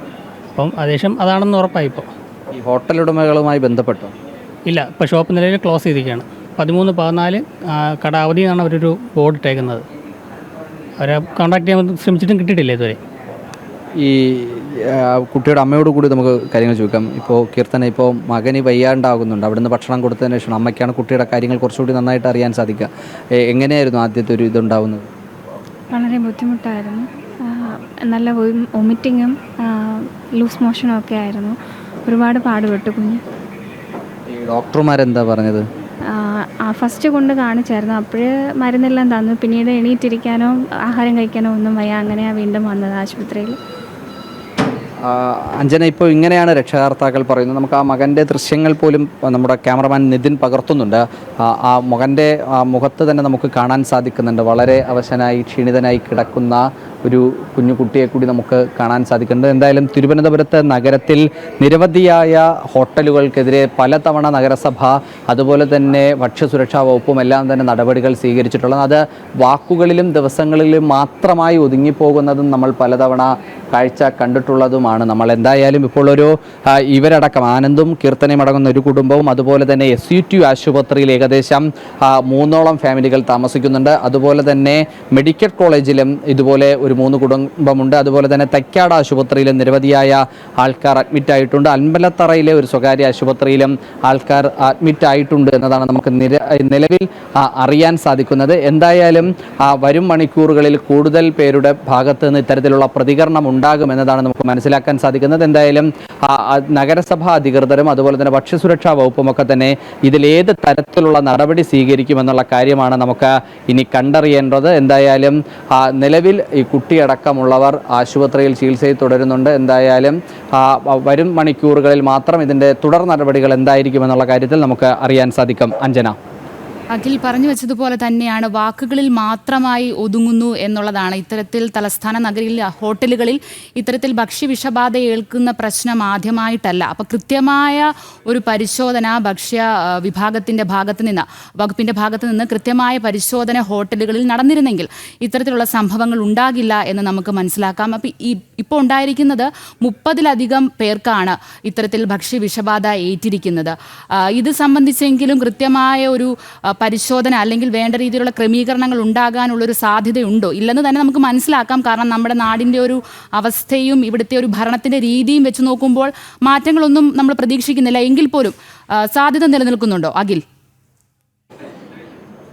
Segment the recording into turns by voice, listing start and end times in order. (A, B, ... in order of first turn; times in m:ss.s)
0:00.5-0:02.1 A
0:02.5-0:04.1 B
0:04.6-0:09.8 A
0:11.0-0:13.0 A
0:14.0-0:25.1 B
0:25.9-0:33.2 C
0:34.3-0:35.6 B
0:36.1-0:43.6 C
0:45.0-2:06.1 B
2:06.9-2:50.4 D